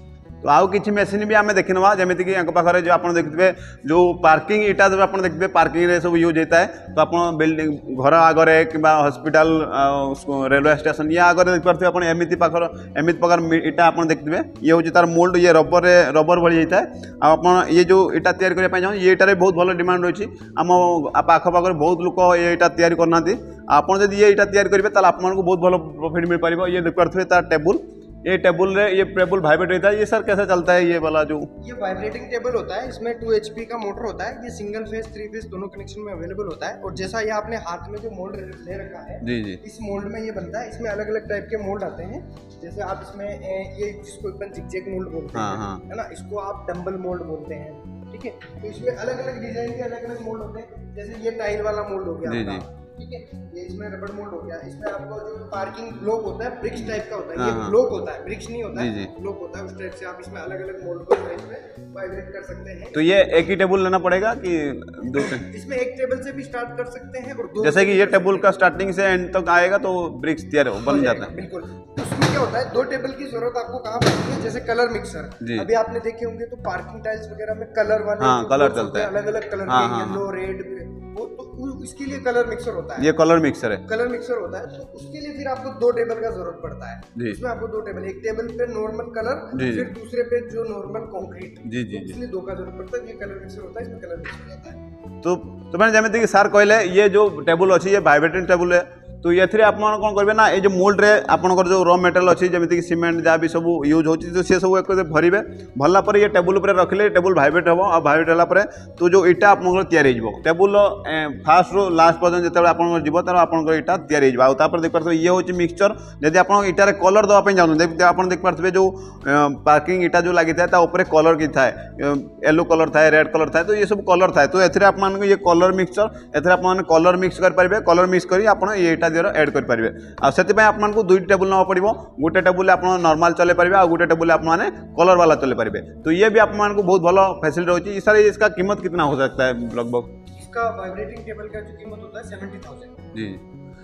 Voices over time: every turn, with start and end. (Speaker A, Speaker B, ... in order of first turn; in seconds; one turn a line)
Speaker A: 0.4-31.5
Speaker B: 31.6-63.1
Speaker A: 39.2-39.6
Speaker A: 45.3-45.8
Speaker A: 52.2-52.6
Speaker A: 57.4-57.8
Speaker A: 58.7-59.1
Speaker A: 62.9-65.5
Speaker B: 65.2-68.5
Speaker A: 67.6-71.4
Speaker B: 70.8-83.1
Speaker A: 75.4-75.7
Speaker A: 78.2-79.1
Speaker A: 79.7-80.2
Speaker A: 83.0-83.8
Speaker B: 83.8-94.8
Speaker A: 89.5-89.9
Speaker A: 91.6-92.2
Speaker A: 95.2-140.1
Speaker B: 140.3-143.0
Speaker A: 143.1-143.4